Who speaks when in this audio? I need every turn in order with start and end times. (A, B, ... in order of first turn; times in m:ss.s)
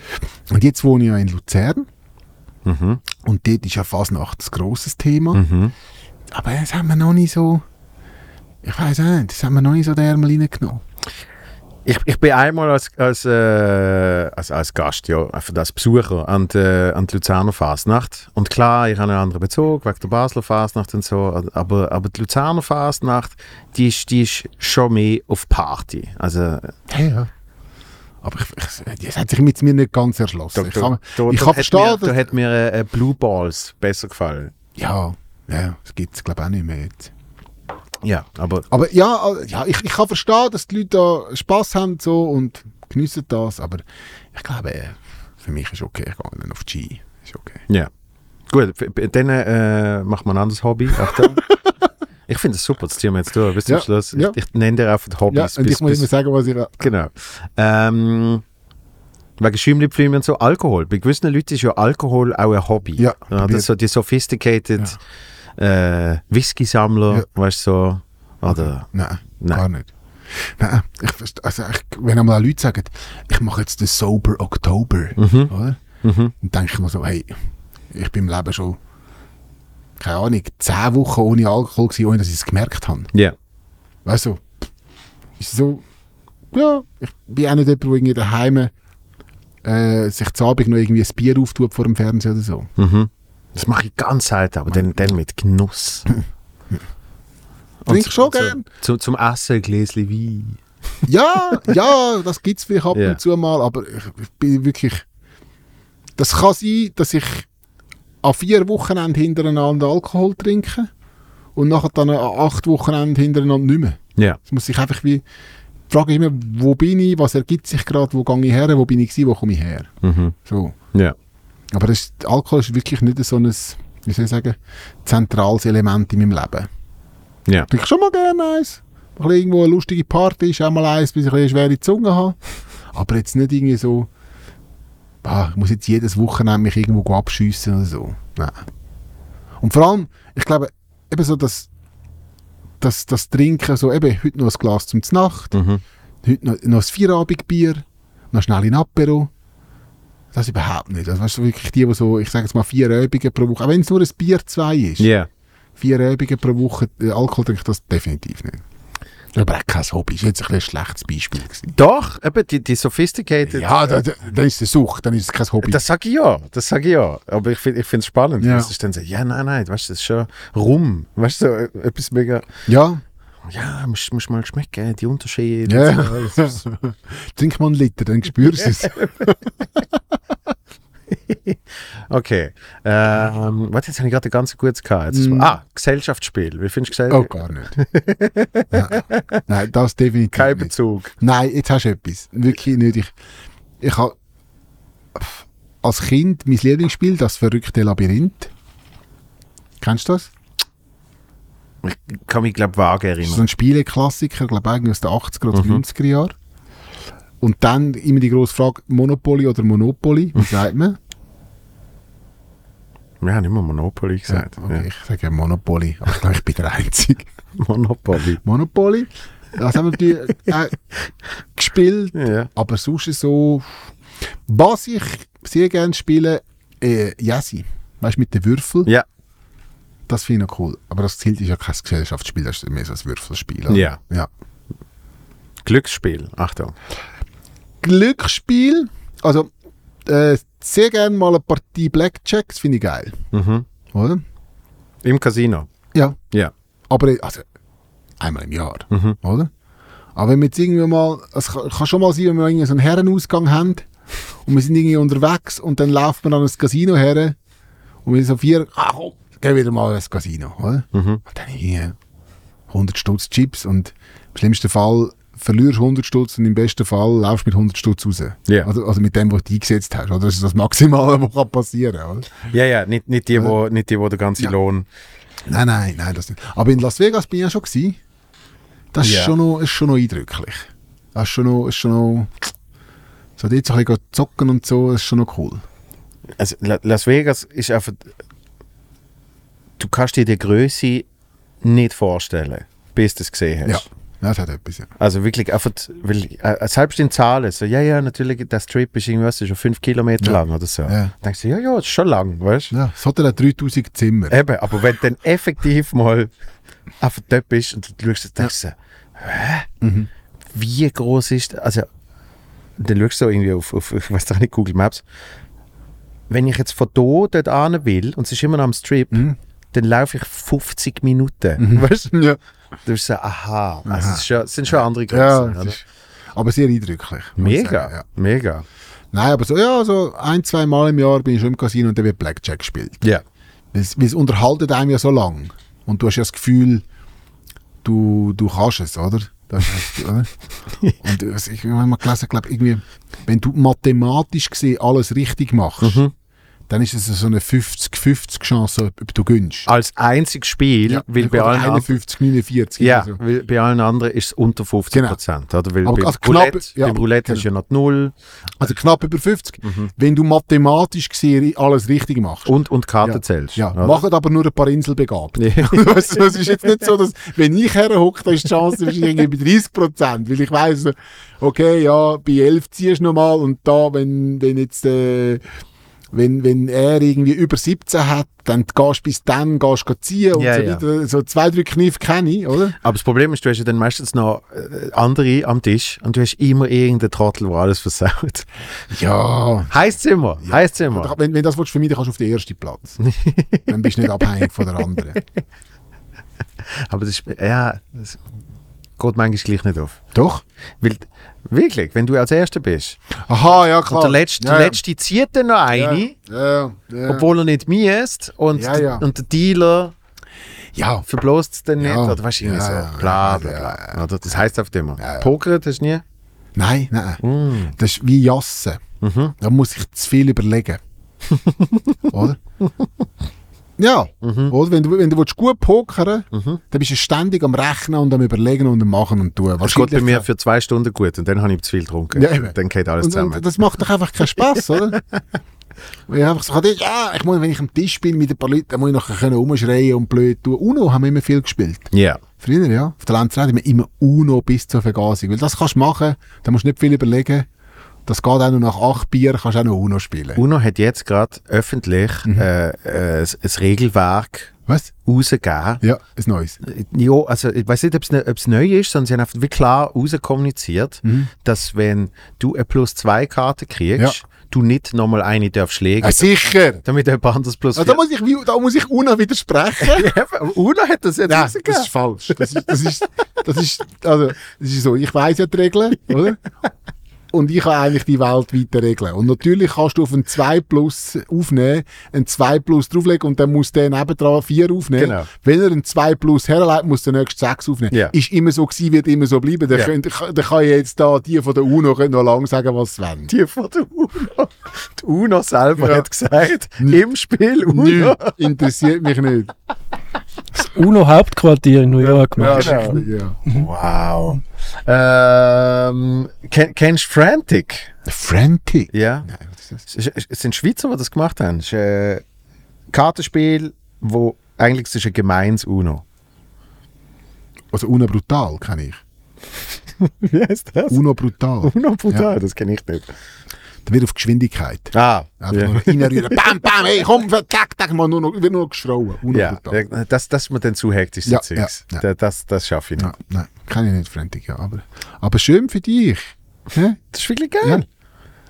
0:00.5-0:01.9 A
0:02.6-0:03.0 B
0:03.2-0:05.4 A
0:05.3-0:05.7 B
0:06.3-0:07.6 A
0:08.6-0:10.8 A
0:11.8-0:26.7 B
0:26.9-0:27.3 A
0:28.2-0:32.2 A
0:30.5-0:34.5 B
0:34.8-0:37.1 A
0:38.0-0:38.7 B
0:38.7-0:47.6 A
0:48.5-0:51.5 B
0:51.0-0:51.5 A
0:52.3-0:56.1 B
0:53.6-0:54.4 A
0:55.3-0:56.9 A
0:56.8-0:58.4 B
0:59.4-1:05.0 B
1:03.0-1:03.7 A
1:05.6-1:09.6 B
1:08.4-1:15.8 A
1:15.2-1:16.3 B
1:16.4-1:17.3 A
1:17.9-1:18.8 A
1:20.0-1:23.1 A
1:24.0-1:24.5 A
1:25.4-1:25.8 A
1:26.5-1:28.7 A
1:29.6-1:32.7 A
1:32.8-1:36.2 B
1:34.7-1:35.1 A
1:37.8-1:40.6 B
1:37.9-1:38.6 A
1:41.0-1:45.0 A
1:42.9-1:43.2 B
1:46.2-1:47.5 A
1:48.2-1:50.9 A
1:51.5-1:55.2 A
1:55.9-1:59.9 A
2:00.0-2:00.3 B
2:00.4-2:00.8 A
2:01.7-2:06.7 A
2:07.7-2:12.4 A
2:12.9-2:14.1 A
2:15.2-2:18.6 A
2:19.6-2:21.7 A
2:22.8-2:25.5 A
2:25.5-2:25.8 B
2:26.2-2:29.3 A
2:30.3-2:35.1 A
2:35.0-2:35.3 B
2:35.8-2:38.6 A
2:39.3-2:41.7 A
2:41.7-2:44.0 B
2:43.4-2:45.8 A
2:45.6-2:52.5 B
2:48.4-2:48.7 A
2:52.7-2:53.0 A
2:53.5-2:56.6 B
2:55.7-2:59.8 A
2:58.8-2:59.1 B
3:01.1-3:09.4 B
3:05.1-3:05.5 A
3:07.1-3:07.7 A
3:08.7-3:13.1 A
3:10.3-3:11.1 B
3:13.8-3:14.2 A
3:15.1-3:18.5 A
3:19.8-3:20.3 A
3:21.8-3:23.4 B
3:23.2-3:26.3 A
3:25.5-3:25.8 B
3:27.4-3:31.0 A
3:33.2-3:34.9 B
3:34.3-3:37.3 A
3:37.5-3:38.4 B
3:38.4-3:40.8 A
3:41.5-3:43.9 A
3:42.1-3:42.5 B
3:44.5-3:48.9 A
3:50.1-3:54.3 A
3:53.7-3:54.0 B
3:55.6-3:56.8 B
3:57.8-3:59.5 A
4:00.0-4:03.2 A
4:03.3-4:03.6 B
4:03.9-4:04.2 A
4:05.0-4:05.7 B
4:06.9-4:07.4 A
4:08.2-4:09.5 A
4:08.9-4:09.2 B
4:10.2-4:13.8 A
4:14.4-4:17.4 A
4:18.0-4:22.0 A
4:20.9-4:21.2 B
4:22.7-4:32.3 A
4:32.5-4:34.9 B
4:35.4-4:38.0 A
4:38.9-4:42.3 A
4:39.0-4:39.3 B
4:43.4-4:45.6 A
4:46.4-4:48.1 B
4:49.8-4:51.1 B
4:51.6-4:53.9 B
4:53.6-4:54.9 A
4:55.0-5:02.7 B
5:00.2-5:01.1 A
5:02.7-5:04.4 A
5:04.3-5:06.3 B
5:07.0-5:09.7 B
5:09.8-5:10.1 A
5:10.5-5:11.9 B
5:12.8-5:15.0 B
5:16.3-5:22.2 B
5:19.1-5:19.4 A
5:21.6-5:22.4 A
5:22.8-5:25.8 B
5:23.8-5:25.8 A
5:26.3-5:28.0 A
5:27.4-5:28.6 B
5:29.1-5:33.0 A
5:33.7-5:36.8 A
5:37.8-5:40.3 A
5:41.0-5:46.0 A
5:45.8-5:46.1 B
5:46.7-5:49.7 A
5:49.6-5:51.9 B
5:50.9-5:53.2 A
5:52.8-5:58.1 B
5:54.9-5:55.2 A
5:55.8-5:57.4 A
5:58.6-6:15.4 A
5:59.6-5:59.9 B
6:02.4-6:04.0 B
6:05.4-6:06.4 B
6:16.1-6:22.8 A
6:20.3-6:20.8 B
6:22.8-6:28.5 B
6:28.9-6:29.8 A
6:29.7-6:31.1 B
6:30.4-6:33.0 A
6:33.0-6:34.0 B
6:33.7-6:35.2 A
6:36.6-6:38.2 B
6:39.0-6:40.0 B
6:40.1-6:40.4 A
6:40.8-6:43.0 B
6:43.2-6:44.8 A
6:43.9-6:46.1 B
6:45.7-6:47.3 A
6:47.0-6:49.9 B
6:48.5-6:49.0 A
6:50.7-6:51.0 A
6:51.0-6:56.0 B
6:51.8-6:54.0 A
6:55.0-6:55.3 A
6:56.5-6:58.8 A
6:57.2-6:57.7 B
6:59.0-6:59.3 B
6:59.4-7:00.8 A
7:01.3-7:02.1 B
7:02.1-7:02.4 A
7:03.8-7:10.2 A
7:04.2-7:04.5 B
7:06.3-7:06.6 B
7:09.6-7:13.4 B
7:12.1-7:15.0 A
7:16.1-7:27.5 A
7:21.9-7:22.2 B
7:28.0-7:30.4 A
7:30.4-7:34.5 B
7:35.0-7:35.8 B
7:35.8-7:36.6 A
7:36.6-7:46.2 B
7:41.0-7:41.3 A
7:46.0-7:46.8 A
7:46.8-7:48.0 B
7:47.7-7:50.1 A
7:49.8-7:52.8 B
7:51.3-7:56.4 A
7:57.3-8:13.3 A
8:05.0-8:05.3 B
8:13.3-8:18.7 B
8:15.8-8:16.1 A
8:17.6-8:19.5 A
8:20.5-8:23.1 C
8:22.2-8:23.4 A
8:22.4-8:27.9 B
8:28.0-8:29.8 A
8:28.9-8:29.3 B
8:29.8-8:32.2 B
8:32.9-8:36.0 B
8:37.7-8:39.0 A
8:40.0-8:41.0 B
8:40.9-8:42.3 A
8:41.6-8:43.1 B
8:43.8-8:49.8 A
8:44.9-8:46.5 B
8:49.3-8:53.1 B
8:51.2-8:52.0 A
8:53.0-8:57.0 A
8:57.1-8:57.8 B